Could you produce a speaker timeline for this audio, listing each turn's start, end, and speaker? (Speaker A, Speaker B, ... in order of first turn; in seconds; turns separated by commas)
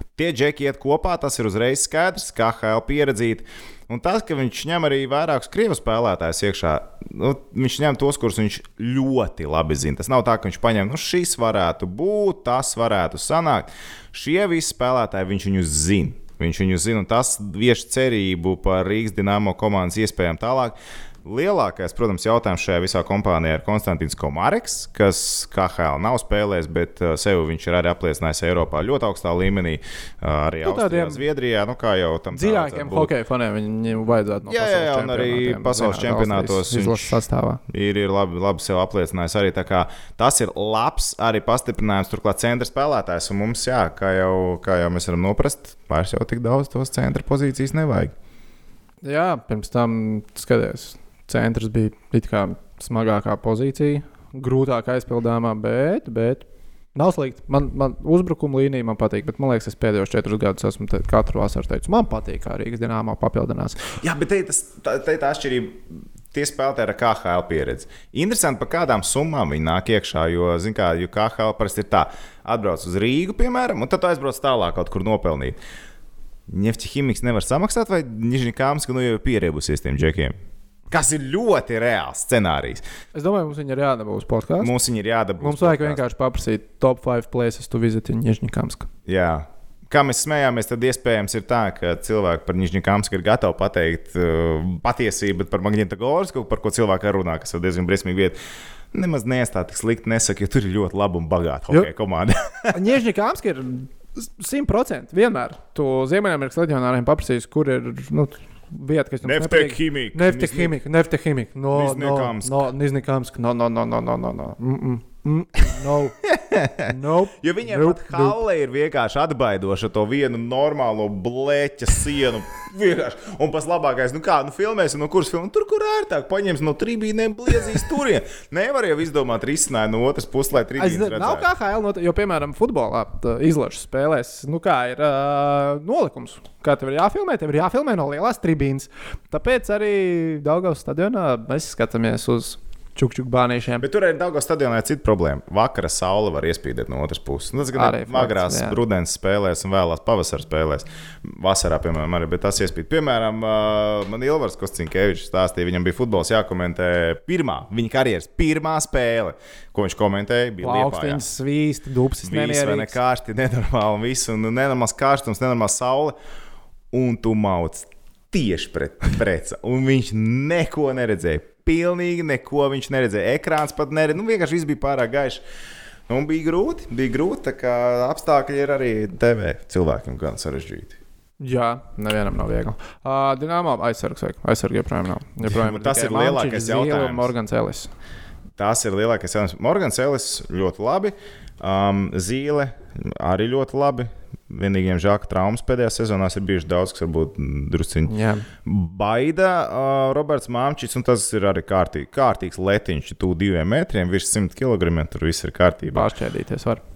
Speaker A: 0.1-33.1, Speaker B: 30.6-31.2, Speaker B: 32.3-37.6, Speaker A: 34.5-48.1, Speaker B: 49.0-63.8, Speaker A: 64.0-75.6, Speaker A: 76.5-80.3, Speaker A: 80.9-82.8, Speaker B: 83.2-84.7, Speaker A: 84.6-86.0, Speaker B: 85.4-88.9, Speaker A: 89.1-98.4, Speaker A: 98.9-102.8, Speaker B: 102.7-116.2, Speaker A: 109.2-110.8, Speaker A: 111.7-112.6, Speaker A: 116.2-131.5, Speaker B: 116.9-118.4, Speaker B: 130.8-143.9, Speaker A: 143.8-161.2, Speaker B: 147.8-148.8, Speaker B: 160.6-163.0, Speaker A: 162.2-166.2, Speaker A: 166.9-175.4, Speaker A: 176.1-180.9, Speaker B: 181.4-187.9, Speaker A: 185.4-187.3, Speaker A: 188.6-198.1, Speaker B: 198.1-198.5, Speaker A: 198.7-206.1, Speaker B: 205.9-206.8